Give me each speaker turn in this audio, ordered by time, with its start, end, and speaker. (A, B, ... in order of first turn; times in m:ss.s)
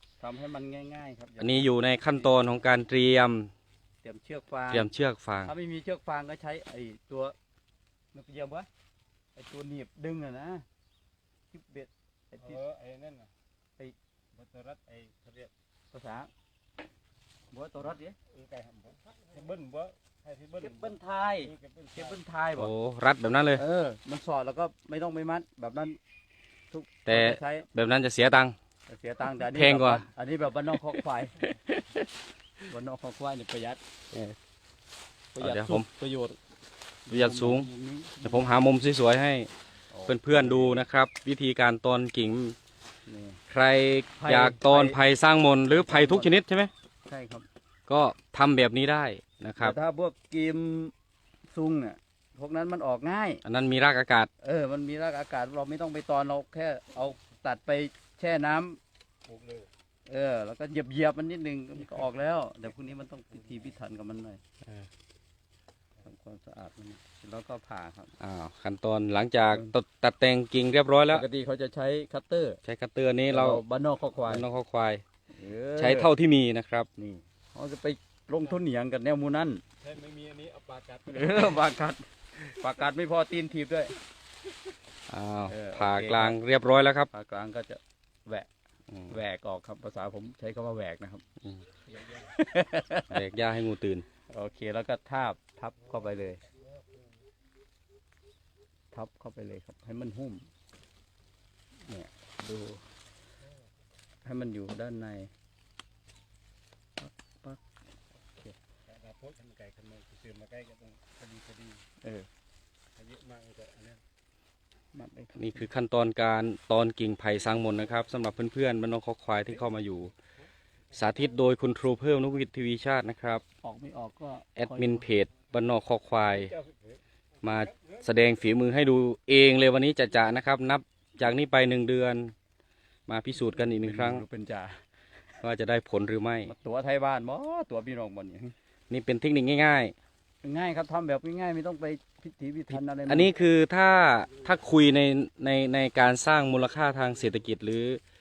0:00.2-0:02.3 A
0:01.4-0:03.5 B
0:04.0-0:04.9 A
0:04.7-0:05.5 B
0:05.4-0:07.4 A
0:08.1-0:08.7 A
0:09.4-0:10.6 A
0:11.5-0:12.6 A
0:12.4-0:13.3 C
0:14.3-0:15.5 C
0:15.9-0:16.3 A
0:17.5-0:18.2 A
0:18.3-0:22.2 C
0:20.6-0:22.7 A
0:22.6-0:23.6 B
0:23.5-0:26.0 A
0:26.7-0:27.7 A
0:27.1-0:28.6 B
0:28.9-0:31.5 A
0:29.4-0:30.0 B
0:31.7-0:32.0 B
0:32.7-0:33.8 A
0:35.3-0:36.4 A
0:35.4-0:35.9 B
0:37.1-0:38.6 A
0:37.1-0:37.7 B
0:38.2-0:39.5 B
0:39.9-0:40.8 A
0:40.1-0:42.6 B
0:43.1-0:43.4 A
0:43.5-0:46.7 B
0:44.2-0:45.0 A
0:45.7-0:46.4 A
0:47.1-0:47.5 A
0:47.9-0:49.8 B
0:49.6-0:50.9 A
0:51.5-0:53.4 A
0:53.4-0:54.3 B
0:54.4-0:58.8 A
0:59.3-0:59.7 C
1:00.1-1:04.4 A
1:06.0-1:08.1 A
1:08.2-1:11.2 B
1:11.1-1:12.6 A
1:12.7-1:13.6 B
1:13.3-1:14.5 A
1:14.2-1:15.0 B
1:15.3-1:16.1 A
1:15.8-1:16.9 B
1:17.0-1:19.6 A
1:19.8-1:21.6 C
1:21.1-1:24.0 A
1:25.1-1:27.1 B
1:25.5-1:26.4 A
1:27.1-1:28.5 A
1:29.1-1:31.2 A
1:32.0-1:32.3 C
1:32.3-1:33.2 A
1:33.1-1:34.1 B
1:34.3-1:36.4 A
1:38.9-1:40.5 A
1:41.8-1:42.8 A
1:44.2-1:45.3 A
1:47.0-1:47.6 A
1:48.2-1:48.6 A
1:48.9-1:51.8 C
1:52.0-1:52.3 A
1:53.0-1:54.0 C
1:54.9-1:55.7 A
1:55.4-2:00.1 B
2:00.9-2:03.4 B
2:03.6-2:05.1 A
2:04.6-2:06.5 B
2:06.3-2:07.0 C
2:07.4-2:12.3 B
2:07.5-2:08.0 C
2:13.1-2:14.2 B
2:13.7-2:14.8 A
2:15.4-2:16.5 B
2:16.4-2:18.6 A
2:18.9-2:20.0 B
2:20.4-2:23.3 A
2:22.7-2:28.0 B